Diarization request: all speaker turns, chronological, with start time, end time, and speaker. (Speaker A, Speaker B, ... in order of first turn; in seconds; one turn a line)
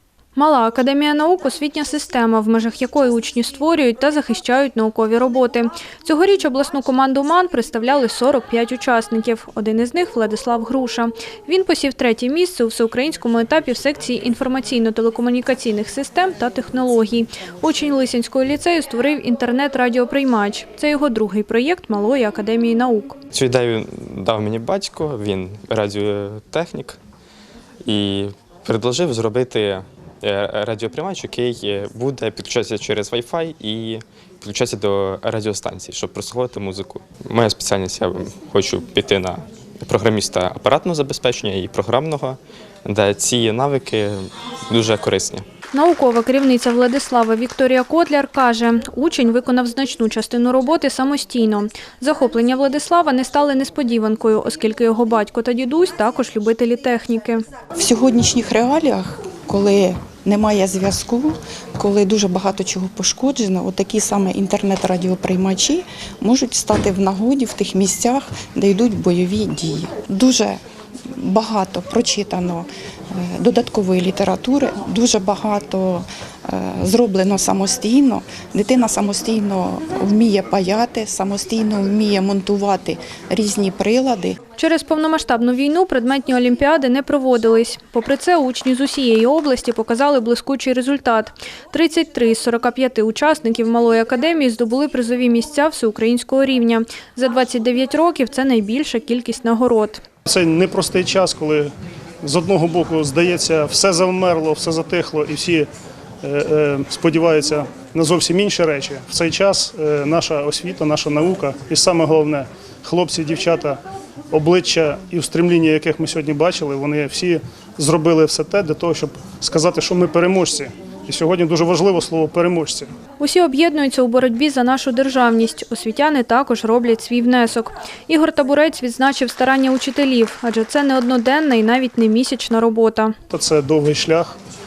Speaker A: 0.3-23.2
Speaker B: 23.3-27.0
Speaker B: 27.8-45.4
Speaker A: 45.7-57.4
Speaker C: 57.8-70.6
Speaker C: 71.1-84.4
Speaker A: 84.6-100.0
Speaker D: 100.2-101.7
Speaker D: 102.2-105.7
Speaker D: 106.2-113.8
Speaker D: 114.3-122.9
Speaker A: 123.2-133.1
Speaker D: 133.3-134.4